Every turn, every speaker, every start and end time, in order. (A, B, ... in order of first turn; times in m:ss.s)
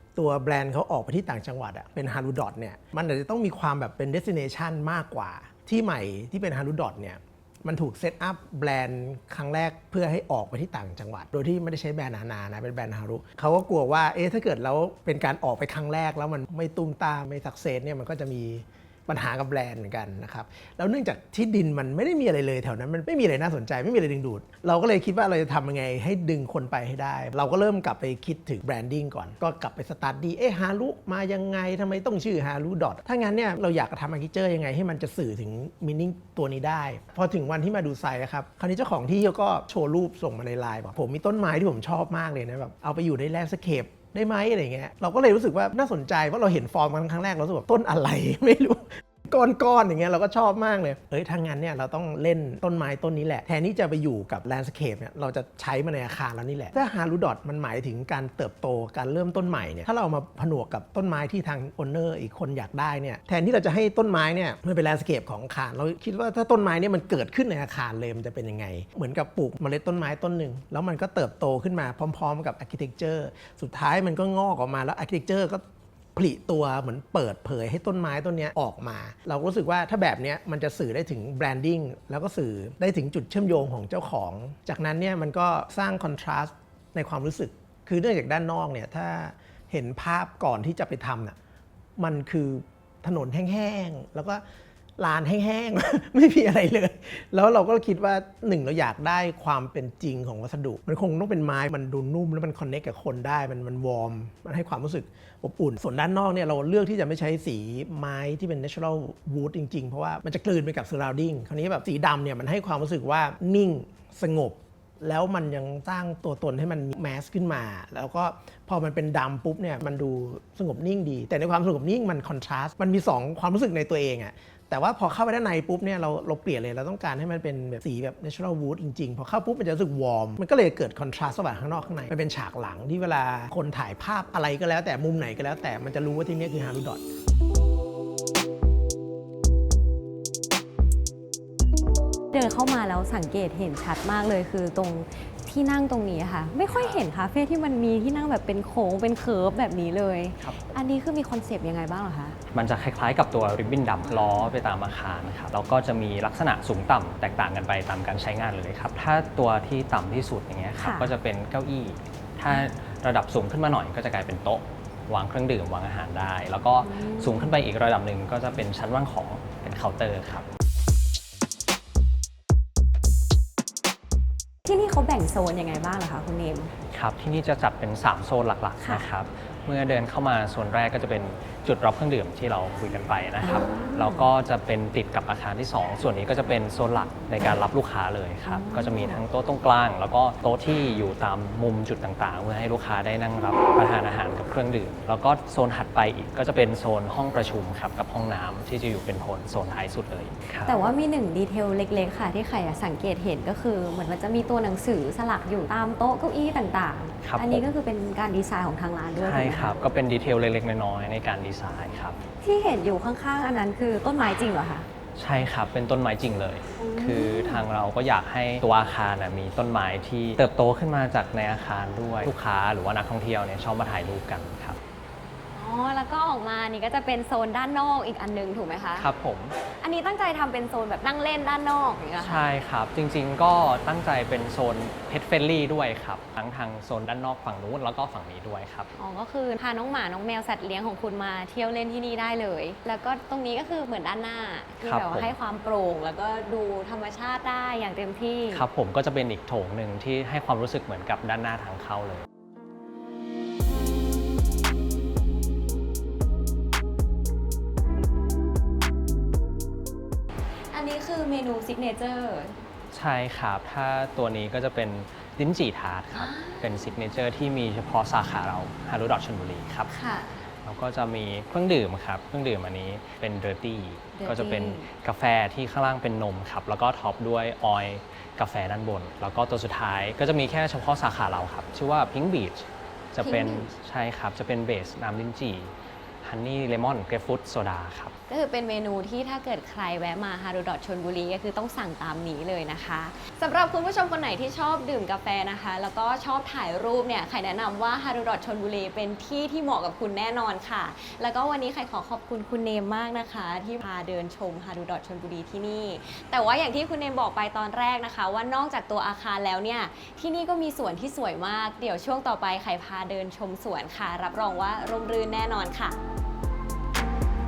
0:00.2-1:15.6 A
1:16.2-1:31.4 A
1:32.0-1:34.4 A
1:35.0-2:17.0 A
2:22.3-2:32.4 B
2:26.7-2:27.0 C
2:32.5-2:50.4 C
2:34.1-2:34.5 B
2:40.8-2:41.1 B
2:46.8-2:47.6 B
2:54.6-2:56.7 B
2:56.9-3:20.8 C
2:58.8-2:59.1 B
3:03.4-3:04.3 B
3:08.4-3:09.2 B
3:20.6-3:29.7 B
3:27.2-3:27.7 C
3:29.2-3:32.2 C
3:32.4-3:34.9 B
3:35.2-3:44.8 C
3:36.8-3:37.6 B
3:45.5-3:49.1 B
3:49.0-3:49.6 C
3:49.6-3:52.4 B
3:52.2-3:58.9 C
3:59.0-4:08.6 B
4:04.8-4:05.3 C
4:08.5-4:12.2 C
4:20.7-4:22.6 B
4:22.9-4:29.9 C
4:26.1-4:26.9 B
4:29.9-4:30.5 B
4:30.6-4:48.1 C
4:34.1-4:34.9 B
4:43.2-4:43.7 B
4:48.3-5:16.0 B